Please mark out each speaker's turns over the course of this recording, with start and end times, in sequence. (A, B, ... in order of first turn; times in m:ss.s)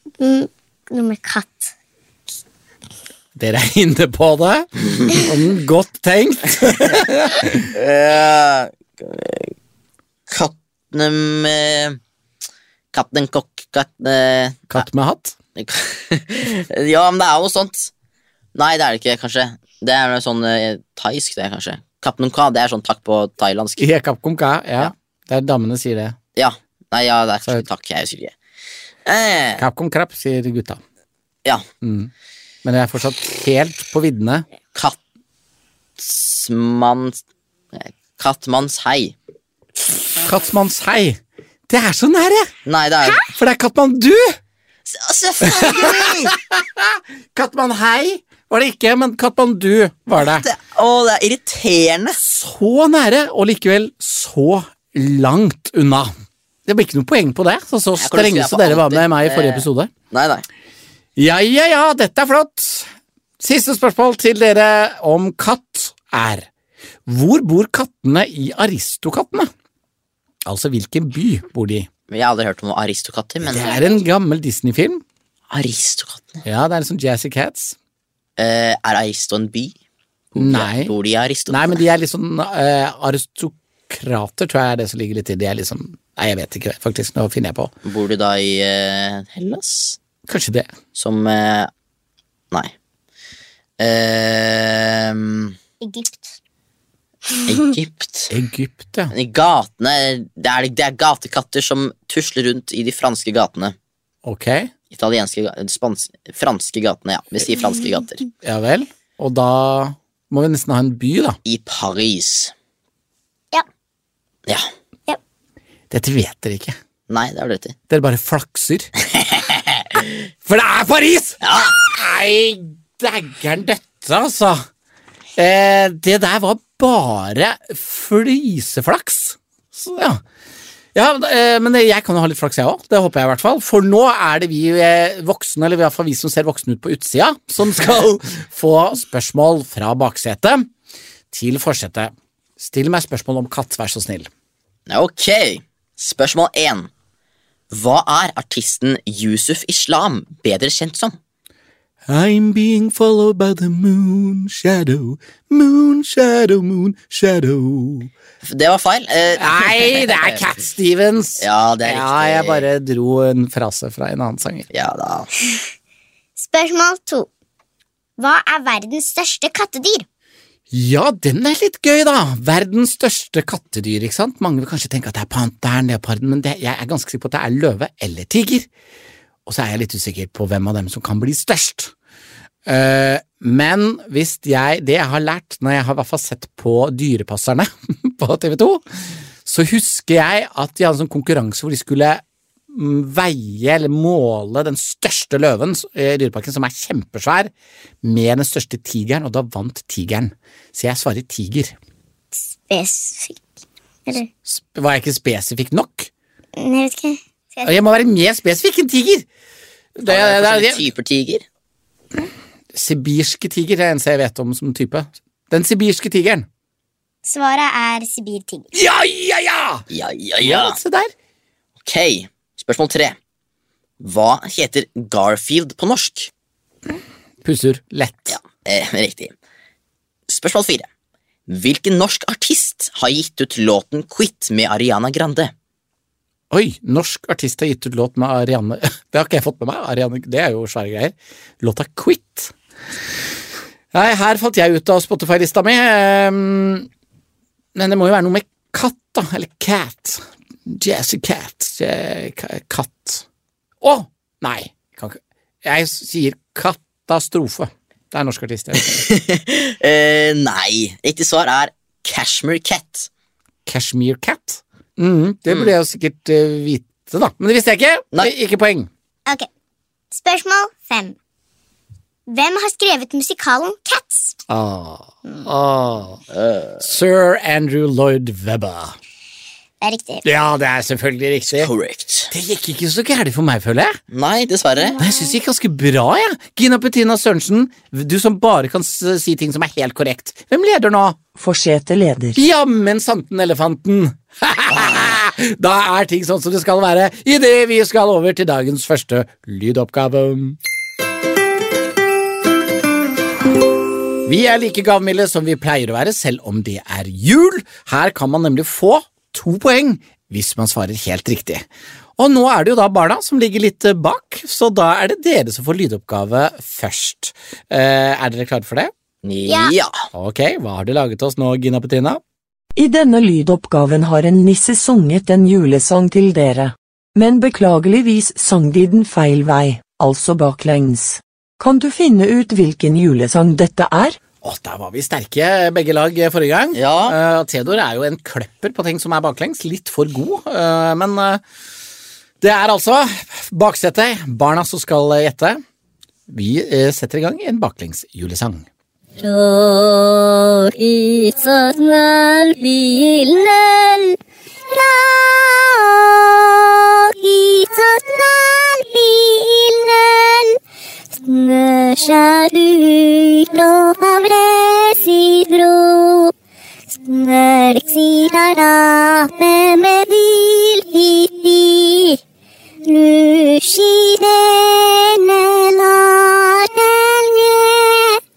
0:00.2-0:01.7 A
0:03.4-0:07.7 B
0:07.7-0:09.5 C
0:10.3-0:12.0 C
0:12.9-0:14.8 C
0:14.7-0:15.4 B
0:15.6-0:17.9 C
0:18.6-0:23.8 C
0:23.8-0:26.2 B
0:26.4-0:28.3 C
0:29.1-0:29.6 C
0:29.6-0:30.8 B
0:31.8-0:32.1 B
0:32.6-0:34.4 B
0:36.0-0:39.1 C
0:40.2-0:42.5 B
0:42.7-0:43.2 C
0:43.2-0:44.4 B
0:44.9-0:46.4 C
0:45.4-0:50.5 B
0:50.2-0:52.2 C
0:52.2-0:56.1 B
0:56.7-0:59.9 B
0:58.0-1:00.4 C
1:01.2-1:06.5 B
1:07.1-1:09.5 B
1:10.4-1:11.9 B
1:12.1-1:13.9 C
1:13.4-1:15.0 B
1:15.5-1:16.4 C
1:16.4-1:17.8 B
1:18.4-1:19.8 C
1:20.3-1:21.8 C
1:20.4-1:20.9 B
1:21.5-1:27.7 B
1:27.8-1:30.0 C
1:30.3-1:30.7 B
1:30.9-1:31.7 C
1:33.8-1:35.6 C
1:35.8-1:36.3 A
1:37.4-1:38.3 C
1:38.3-1:39.1 B
1:39.1-1:43.8 C
1:44.2-1:44.7 B
1:44.9-1:48.2 C
1:48.4-1:51.4 B
1:51.4-1:52.5 C
1:55.9-1:56.8 B
1:57.1-1:57.8 C
1:57.9-1:58.9 B
1:59.0-2:00.0 C
2:00.4-2:04.7 B
2:01.4-2:01.8 C
2:05.4-2:10.2 B
2:10.9-2:20.7 B
2:21.3-2:24.3 B
2:24.9-2:26.9 C
2:27.7-2:31.2 C
2:32.1-2:38.1 B
2:38.4-2:40.4 C
2:39.4-2:44.7 B
2:41.4-2:42.6 C
2:44.7-2:45.3 C
2:46.4-2:47.3 A
2:48.2-2:50.0 A
2:50.7-2:58.7 B
2:59.4-3:01.9 B
3:02.7-3:08.8 B
3:09.4-3:21.8 B
3:22.4-3:23.5 A
3:24.4-3:26.1 B
3:26.6-3:27.8 A
3:27.6-3:29.2 B
3:30.0-3:30.8 B
3:30.1-3:31.4 C
3:32.7-3:36.5 B
3:37.2-3:38.7 A
3:38.7-3:39.8 B
3:39.9-3:40.8 C
3:40.4-3:41.1 B
3:41.8-3:43.2 C
3:44.0-3:46.3 C
3:47.4-3:48.4 B
3:48.3-3:49.3 C
3:50.3-3:50.9 C
3:51.5-3:55.5 C
3:56.5-4:02.5 B
4:03.9-4:06.9 B
4:07.7-4:13.2 B
4:13.8-4:19.0 B
4:18.8-4:23.1 C
4:23.7-4:28.9 B
4:25.5-4:25.7 C
4:30.1-4:31.2 A
4:32.3-4:34.4 A
4:34.5-4:36.2 B
4:36.3-4:36.8 C
4:36.8-4:39.0 B
4:39.8-4:40.2 A
4:40.2-4:41.7 B
4:41.5-4:42.3 C
4:42.3-4:44.0 B
4:44.1-4:45.0 C
4:44.8-4:45.3 A
4:45.0-4:51.2 B
4:51.4-4:52.4 D
4:52.4-5:00.6 B
5:04.3-5:11.7 B
5:12.2-5:18.9 B
5:19.2-5:20.0 C
5:19.5-5:19.7 A
5:20.1-5:22.2 B
5:22.8-5:34.2 D
5:34.4-5:41.4 B
5:36.7-5:37.2 C
5:42.4-5:45.6 B
5:46.3-5:48.7 B
5:49.4-5:54.2 E
5:54.7-6:00.6 E
6:01.2-6:06.3 E
6:06.9-6:12.2 E
6:12.8-6:18.2 E